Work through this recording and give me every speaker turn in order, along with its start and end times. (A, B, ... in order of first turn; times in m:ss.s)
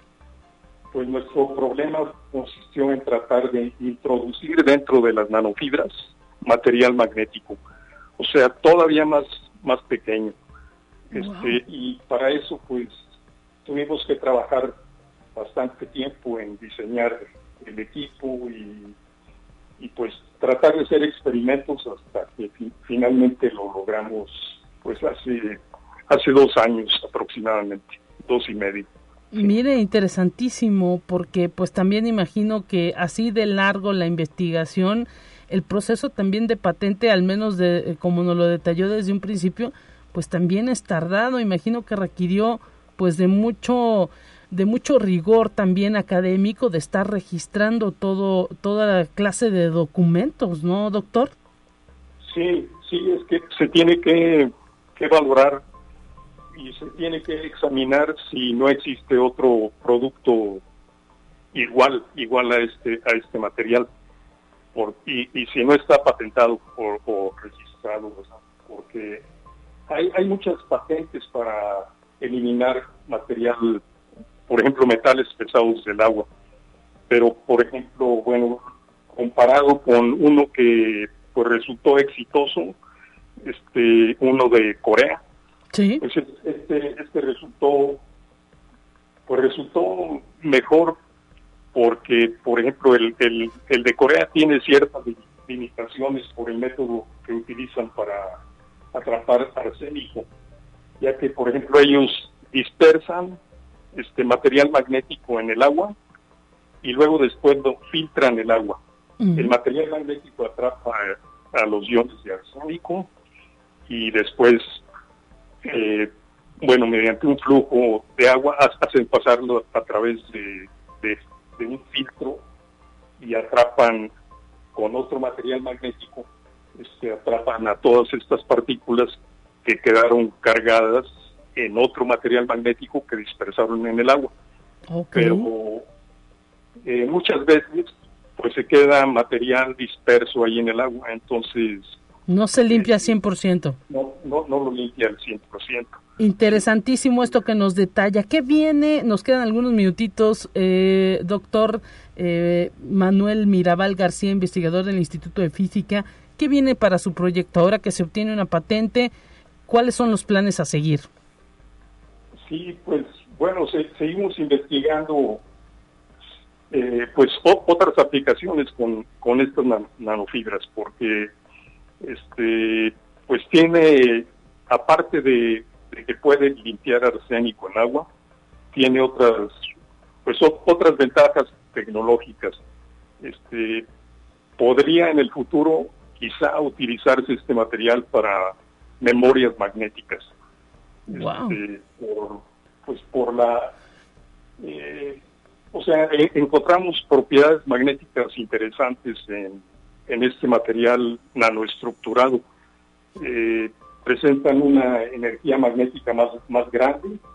0:00.9-0:07.6 A
0:08.2-0:10.4 A
0:11.1-0:11.6 B
0:11.1-0:13.0 A
0:13.6-0:14.7 A
0:15.4-0:19.0 A
0:19.8-0:28.9 A
0:29.3-0:51.3 B
0:52.2-0:55.6 A
0:56.6-1:00.6 A
1:01.5-1:03.9 A
1:04.7-1:09.2 A
1:09.9-1:13.8 A
1:14.5-1:16.3 A
1:17.1-1:18.6 A
1:19.1-1:22.8 A
1:23.4-1:25.2 A
1:25.7-1:26.0 B
1:26.0-1:28.0 A
1:29.3-1:31.0 A
1:31.7-1:38.4 A
1:38.9-1:40.3 A
1:41.0-1:43.4 A
1:43.9-1:46.0 A
1:46.8-1:48.8 A
1:49.2-1:49.6 B
1:49.4-1:53.1 A
1:53.9-1:54.8 A
1:55.6-1:56.1 A
1:56.6-2:02.4 A
2:03.2-2:04.1 A
2:04.8-2:14.3 A
2:14.9-2:15.5 B
2:15.1-2:15.8 A
2:16.8-2:22.0 A
2:22.3-2:23.8 B
2:22.7-2:23.1 A
2:23.9-2:26.0 A
2:26.2-2:39.1 B
2:39.7-2:41.1 B
2:42.4-2:45.4 A
2:46.7-2:51.3 A
2:52.0-2:58.1 A
2:58.7-2:59.5 A
3:00.2-3:02.6 A
3:03.2-3:03.9 A
3:04.6-3:10.3 A
3:11.1-3:11.6 B
3:11.1-3:13.7 A
3:14.6-3:15.2 A
3:15.7-3:22.4 A
3:23.2-3:27.2 A